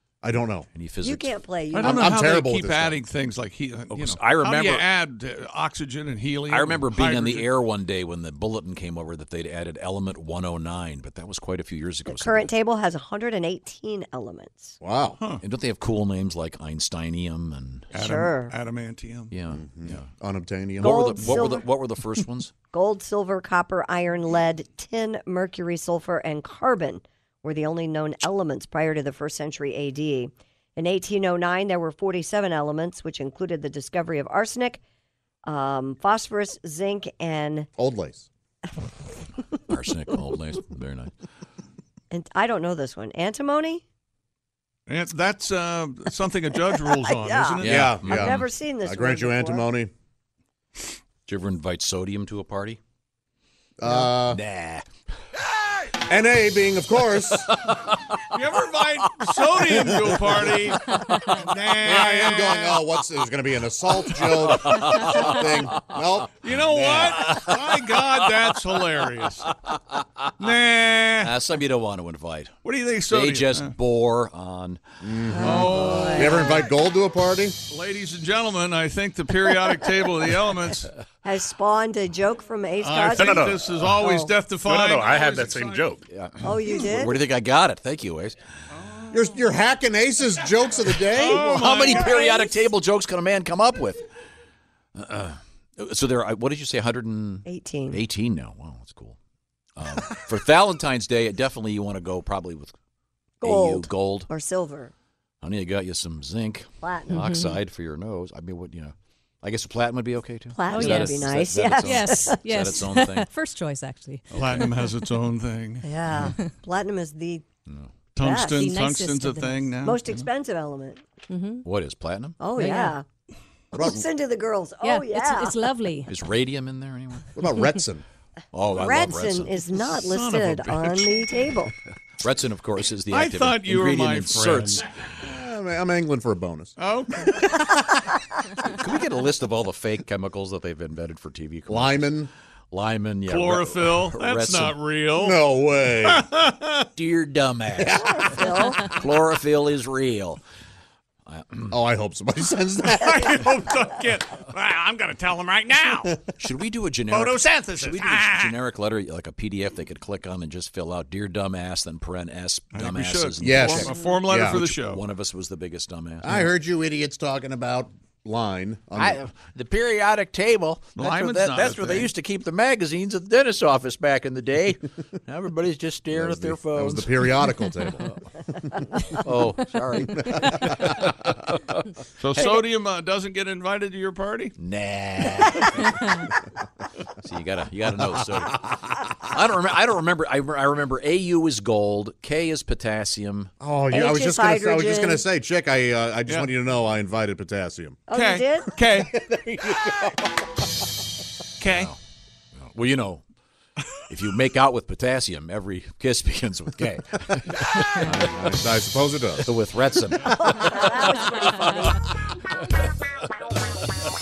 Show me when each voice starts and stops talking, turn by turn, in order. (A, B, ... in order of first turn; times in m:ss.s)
0:00.2-0:00.7 A
0:00.7-0:01.4 B
0:01.0-0:02.2 C
0:01.7-0:07.5 D
0:01.8-0:03.0 A
0:03.9-0:04.9 B
0:06.5-0:12.5 B
0:12.1-0:14.8 C
0:14.8-0:15.2 A
0:15.4-0:18.0 B
0:17.9-0:19.3 D
0:18.0-0:18.6 C
0:19.3-0:20.1 B
0:19.5-0:21.0 A
0:20.8-0:22.5 B
0:20.8-0:21.7 C
0:22.7-0:34.8 C
0:35.5-0:37.7 C
0:37.8-0:38.3 A
0:39.7-0:41.1 B
0:42.1-0:43.8 C
0:44.9-0:48.0 D
0:46.8-0:49.7 C
0:47.6-0:48.4 B
0:47.6-0:49.9 A
0:51.3-0:52.8 B
0:53.8-0:54.4 A
0:53.9-0:54.9 B
0:56.0-0:57.6 A
0:58.3-1:02.8 D
0:59.8-1:00.1 A
1:01.8-1:07.3 A
1:04.5-1:05.7 B
1:06.4-1:09.5 D
1:10.4-1:11.4 D
1:11.2-1:12.6 B
1:12.6-1:13.7 D
1:13.1-1:14.8 B
1:15.0-1:17.6 A
1:15.3-1:16.5 C
1:15.4-1:16.5 D
1:15.7-1:16.2 B
1:17.7-1:20.9 D
1:21.2-1:24.4 C
1:22.8-1:26.0 D
1:23.2-1:23.8 A
1:24.6-1:26.0 A
1:26.1-1:28.4 B
1:26.4-1:27.2 C
1:28.7-1:29.2 D
1:29.1-1:31.5 A
1:31.1-1:32.4 D
1:31.2-1:34.0 B
1:35.0-1:39.2 B
1:37.5-1:38.0 C
1:39.8-1:42.8 B
1:43.4-1:44.3 B
1:43.4-1:44.9 C
1:45.4-1:53.3 B
1:46.8-1:47.4 C
1:47.1-1:47.5 E
1:50.5-1:52.8 C
1:50.7-1:51.3 E
1:51.8-1:54.8 E
1:54.3-1:54.7 B
1:54.3-1:56.4 D
1:55.8-1:57.4 C
1:57.7-1:57.9 B
1:58.2-2:00.2 D
1:58.2-1:58.7 C
1:58.5-1:59.7 E
1:59.8-2:01.0 C
2:01.3-2:01.6 E
2:01.6-2:02.4 B
2:02.4-2:03.0 C
2:02.6-2:03.0 E
2:03.7-2:04.0 A
2:03.7-2:05.7 C
2:04.8-2:06.1 E
2:06.1-2:07.3 B
2:07.4-2:08.0 A
2:08.5-2:09.6 B
2:08.7-2:11.7 C
2:09.8-2:11.3 D
2:12.2-2:14.9 B
2:13.1-2:14.8 D
2:15.2-2:16.8 A
2:16.8-2:17.6 D
2:18.6-2:22.2 B
2:21.7-2:22.3 A
2:22.7-2:24.8 B
2:23.3-2:25.4 D
2:25.2-2:26.3 A
2:26.1-2:26.8 D
2:27.0-2:30.4 B
2:27.8-2:28.4 A
2:28.0-2:28.9 C
2:31.3-2:31.8 B
2:31.7-2:33.4 A
2:33.0-2:36.1 D
2:36.4-2:46.4 B
2:37.1-2:38.4 D
2:42.7-2:45.0 D
2:43.4-2:44.6 A
2:46.2-2:49.2 A
2:49.0-2:57.5 B
2:51.0-2:52.1 D
2:56.1-2:58.0 A
2:59.1-3:01.9 B
3:02.2-3:04.5 D
3:04.6-3:06.3 B
3:07.2-3:13.5 B
3:13.6-3:18.0 A
3:13.9-3:15.2 C
3:18.1-3:18.8 C
3:18.1-3:19.2 D
3:19.2-3:20.2 A
3:21.6-3:21.9 D
3:21.7-3:22.0 B
3:22.6-3:23.2 B
3:24.1-3:28.3 B
3:28.0-3:29.5 A
3:29.4-3:32.0 B
3:30.4-3:31.9 C